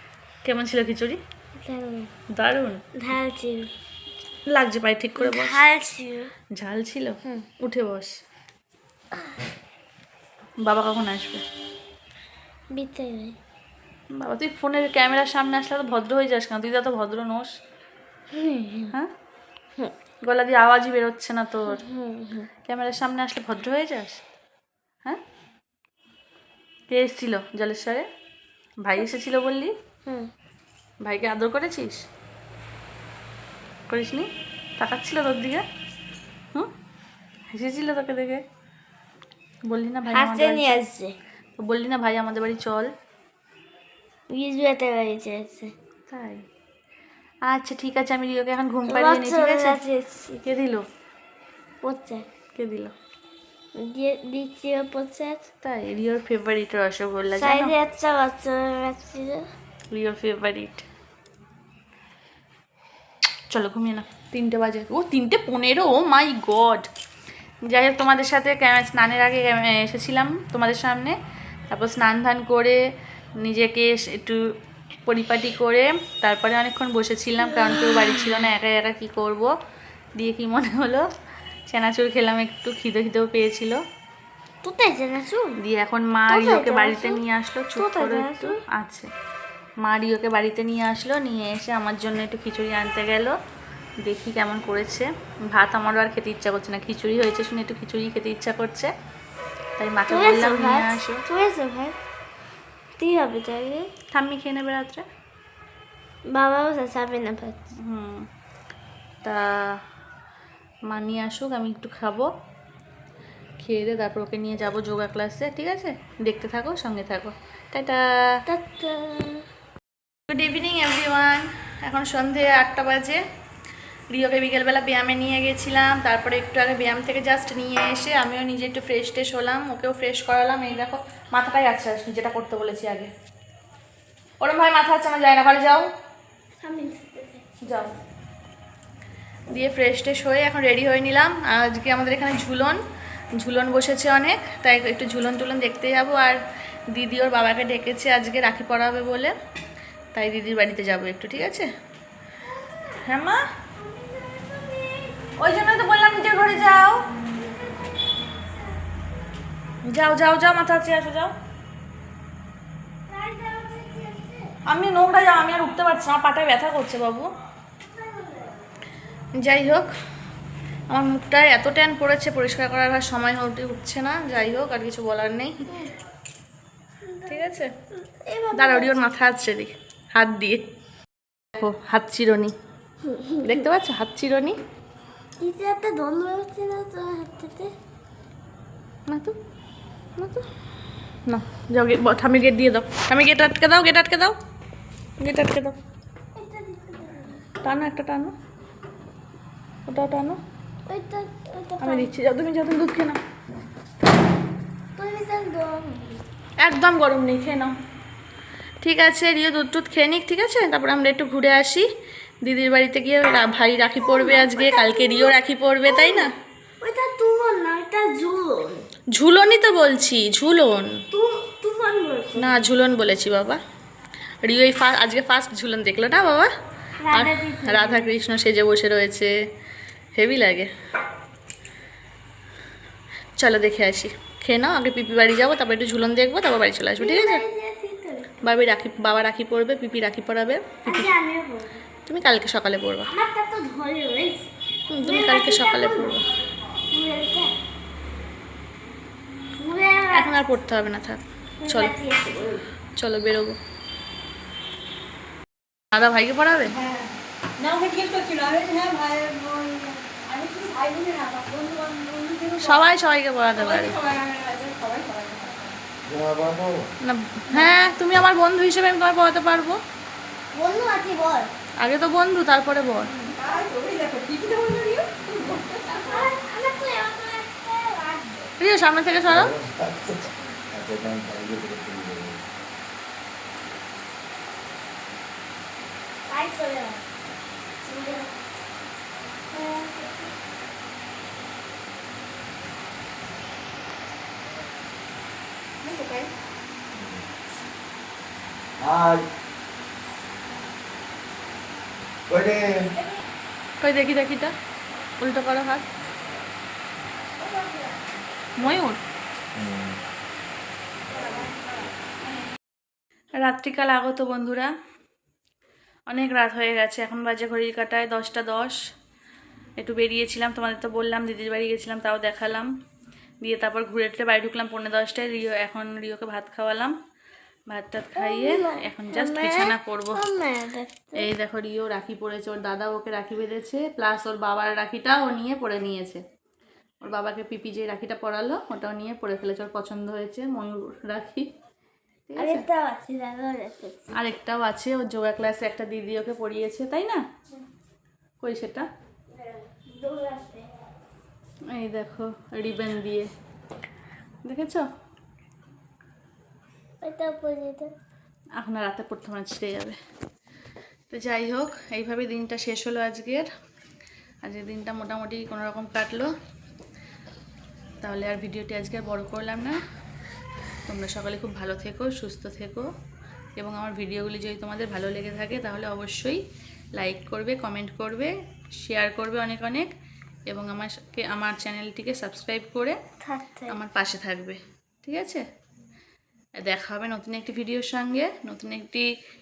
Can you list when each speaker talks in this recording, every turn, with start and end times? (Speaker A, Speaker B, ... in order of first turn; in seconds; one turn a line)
Speaker A: 0.4-1.2
Speaker B: 1.6-2.1
Speaker A: 2.4-2.8
Speaker B: 3.0-3.7
Speaker A: 4.5-5.6
Speaker B: 5.2-6.3
Speaker A: 6.5-8.1
Speaker A: 10.6-11.4
Speaker B: 12.7-13.4
Speaker A: 14.1-17.5
Speaker B: 18.4-18.9
Speaker A: 20.2-21.8
Speaker B: 21.7-22.5
Speaker A: 22.7-24.2
Speaker A: 26.9-28.1
Speaker A: 28.8-29.7
Speaker A: 31.0-32.0
Speaker A: 33.9-35.6
Speaker A: 37.5-38.4
Speaker A: 39.7-40.8
Speaker B: 40.1-41.2
Speaker A: 41.6-42.9
Speaker B: 44.3-45.7
Speaker A: 46.1-46.4
Speaker A: 47.5-49.8
Speaker B: 48.9-50.4
Speaker A: 50.4-50.8
Speaker B: 51.8-52.2
Speaker A: 52.6-52.9
Speaker B: 53.8-55.4
Speaker A: 55.6-57.7
Speaker B: 57.3-59.5
Speaker A: 59.9-60.9
Speaker A: 63.5-66.9
Speaker A: 67.7-71.2
Speaker A: 71.7-72.8
Speaker A: 73.4-79.5
Speaker A: 80.2-81.1
Speaker A: 81.7-83.8
Speaker B: 84.6-85.6
Speaker A: 85.6-89.1
Speaker B: 86.3-87.2
Speaker B: 87.8-88.6
Speaker A: 89.8-93.4
Speaker A: 94.0-98.9
Speaker A: 99.8-101.2
Speaker B: 100.1-102.0
Speaker B: 103.0-103.9
Speaker A: 104.1-105.0
Speaker B: 106.3-107.6
Speaker A: 107.8-108.2
Speaker A: 109.2-109.8
Speaker A: 110.9-112.3
Speaker A: 113.6-118.0
Speaker B: 118.5-119.4
Speaker A: 120.3-123.2
Speaker A: 124.1-133.1
Speaker A: 134.4-135.9
Speaker B: 136.6-137.5
Speaker A: 137.6-137.9
Speaker A: 139.5-142.8
Speaker A: 143.4-146.4
Speaker A: 146.9-149.3
Speaker A: 150.1-151.7
Speaker B: 152.6-153.0
Speaker A: 153.0-153.4
Speaker B: 153.8-155.2
Speaker A: 155.4-157.1
Speaker B: 157.1-158.8
Speaker A: 159.8-161.3
Speaker B: 163.1-164.5
Speaker A: 164.7-167.3
Speaker B: 167.8-168.6
Speaker A: 169.4-169.9
Speaker A: 170.9-175.7
Speaker B: 177.1-177.6
Speaker A: 177.2-177.7
Speaker B: 178.2-179.1
Speaker A: 178.5-180.6
Speaker A: 181.5-182.5
Speaker B: 183.1-183.6
Speaker A: 183.4-184.6
Speaker B: 185.4-187.7
Speaker A: 189.1-189.3
Speaker A: 190.2-190.4
Speaker A: 191.3-194.4
Speaker A: 195.2-195.8
Speaker B: 196.4-197.4
Speaker A: 197.6-198.3
Speaker A: 199.9-200.4
Speaker B: 200.9-202.1
Speaker A: 201.8-203.2
Speaker B: 205.0-206.2
Speaker A: 206.6-207.7
Speaker A: 208.8-211.9
Speaker A: 212.4-216.3
Speaker B: 214.0-215.4
Speaker B: 215.9-218.9
Speaker A: 219.1-221.0
Speaker B: 221.1-222.5
Speaker A: 222.3-223.6
Speaker A: 224.4-226.5
Speaker B: 227.0-228.1
Speaker A: 227.1-229.3
Speaker A: 230.2-230.7
Speaker A: 233.4-237.4
Speaker B: 237.0-238.3
Speaker A: 238.4-241.1
Speaker B: 240.8-241.8
Speaker A: 242.1-243.1
Speaker B: 243.0-246.2
Speaker A: 244.9-246.2
Speaker B: 246.9-247.5
Speaker B: 249.6-250.4
Speaker A: 250.1-251.9
Speaker B: 251.6-252.6
Speaker A: 253.0-253.6
Speaker A: 255.9-256.8
Speaker C: 257.6-262.9
Speaker A: 262.6-264.0
Speaker C: 263.6-265.8
Speaker D: 266.0-266.9
Speaker A: 267.0-269.8
Speaker B: 270.5-271.5
Speaker A: 271.8-273.1
Speaker C: 273.2-276.3
Speaker B: 276.0-278.5
Speaker A: 278.6-279.5
Speaker D: 279.3-282.4
Speaker B: 286.3-287.0
Speaker B: 287.8-288.3
Speaker B: 289.5-290.3
Speaker C: 295.9-296.3
Speaker D: 296.9-297.2
Speaker D: 298.8-299.2
Speaker D: 302.3-303.0
Speaker A: 303.8-304.5
Speaker A: 305.2-305.8
Speaker A: 308.6-309.0
Speaker D: 309.6-310.0
Speaker A: 313.4-314.7
Speaker A: 316.1-318.8
Speaker A: 319.8-322.7
Speaker A: 323.4-326.9
Speaker A: 327.7-330.2
Speaker B: 328.1-331.2
Speaker A: 331.1-336.2
Speaker A: 337.0-341.5
Speaker A: 342.3-342.6
Speaker B: 342.4-344.2
Speaker A: 344.1-347.2
Speaker A: 348.4-348.9
Speaker B: 349.3-350.8
Speaker A: 351.7-353.3
Speaker A: 354.4-354.9
Speaker B: 357.0-357.9
Speaker A: 358.6-360.0
Speaker A: 361.1-363.5
Speaker A: 364.4-366.3
Speaker A: 368.0-369.8
Speaker A: 370.9-372.9
Speaker A: 373.6-376.4
Speaker A: 377.0-379.9
Speaker A: 380.5-383.0
Speaker B: 383.2-383.8
Speaker A: 383.7-385.4
Speaker A: 386.6-389.1